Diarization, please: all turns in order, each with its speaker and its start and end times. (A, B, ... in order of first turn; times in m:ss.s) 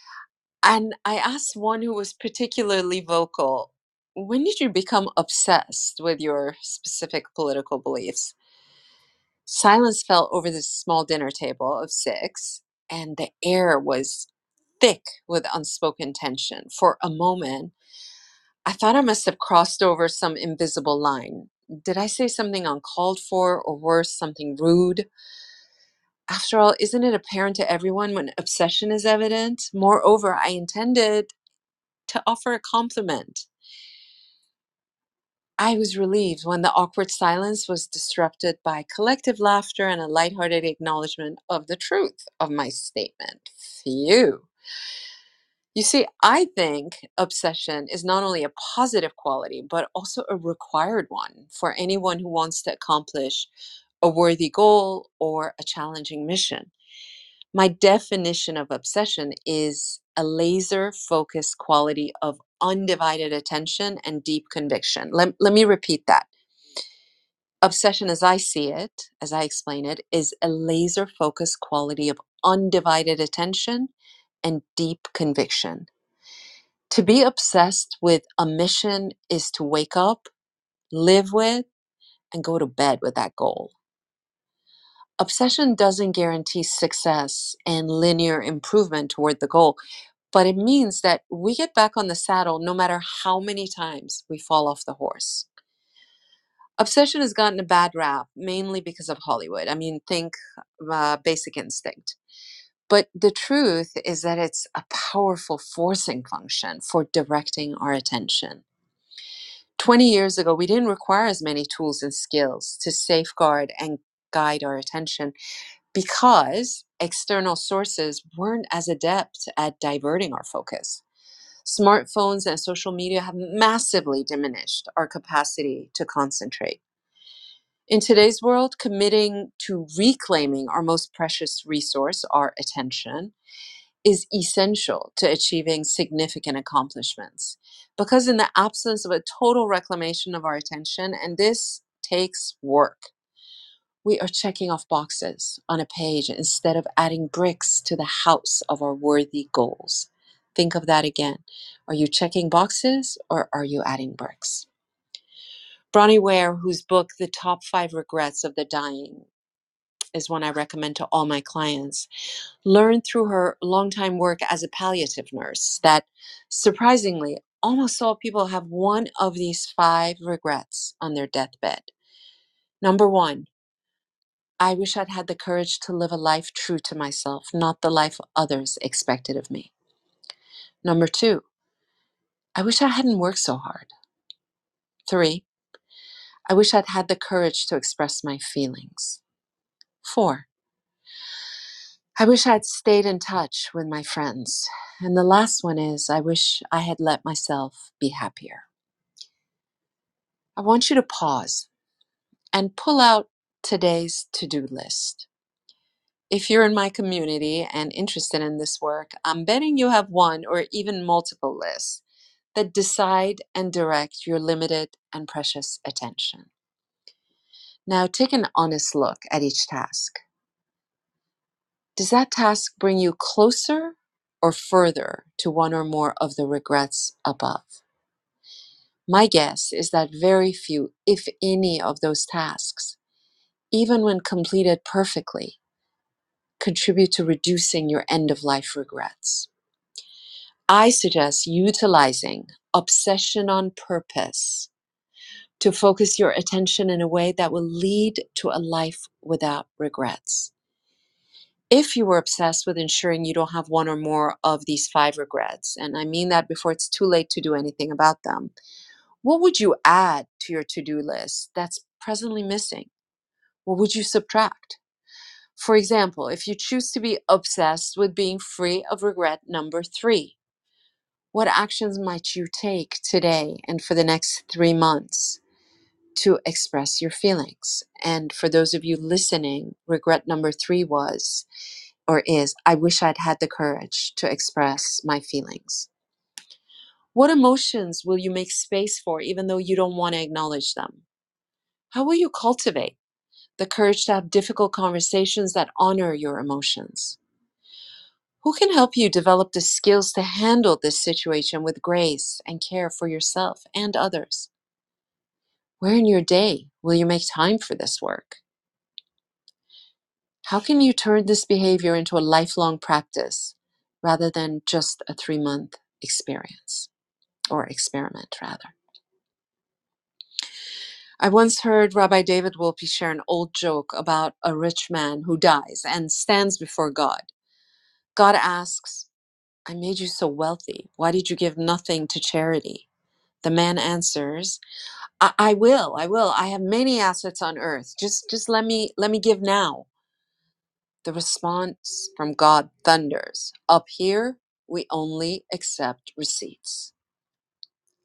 0:00.6-0:08.4 A
0:09.5-0:14.3 A
0:14.8-0:17.7 A
0:18.7-0:25.1 A
0:26.3-0:31.3 A
0:32.1-0:33.5 A
0:35.6-0:44.5 A
0:45.8-0:53.5 A
0:54.0-0:56.7 A
0:57.5-1:06.3 A
1:07.6-1:13.9 A
1:14.4-1:15.9 A
1:16.9-1:20.3 A
1:20.9-1:21.7 A
1:22.3-1:23.8 A
1:25.2-1:29.8 A
1:30.3-1:35.5 A
1:36.8-1:42.2 A
1:42.9-1:48.6 A
1:49.8-1:55.3 A
1:55.9-2:01.0 A
2:01.6-2:06.8 A
2:07.9-2:13.3 A
2:14.0-2:23.1 A
2:24.0-2:34.7 A
2:35.9-2:39.3 A
2:40.1-2:42.1 A
2:42.6-2:51.9 A
2:52.8-2:53.5 A
2:54.6-2:59.7 A
3:00.8-3:01.5 A
3:02.6-3:03.9 A
3:05.1-3:05.4 A
3:06.5-3:09.2 A
3:10.0-3:10.5 A
3:12.2-3:18.7 A
3:20.6-3:21.7 A
3:22.5-3:25.3 A
3:26.3-3:32.0 A
3:32.6-3:36.5 A
3:37.9-3:40.2 A
3:42.0-3:47.8 A
3:49.1-3:53.0 A
3:53.7-3:55.6 A
3:56.6-3:59.5 A
4:00.7-4:04.7 A
4:05.6-4:10.5 A
4:11.7-4:18.5 A
4:19.2-4:22.9 A
4:23.7-4:24.8 A
4:25.6-4:30.4 A
4:31.3-4:35.4 A
4:36.2-4:41.5 A
4:42.1-4:45.9 A
4:47.2-4:51.0 A
4:51.9-4:53.0 A
4:53.6-4:57.2 A
4:58.4-5:04.5 A
5:05.8-5:08.4 A
5:10.4-5:16.9 A
5:17.5-5:18.7 A
5:21.2-5:27.3 A
5:28.2-5:29.1 A
5:29.7-5:32.9 A
5:33.4-5:34.6 A
5:35.2-5:39.9 A
5:41.0-5:46.9 A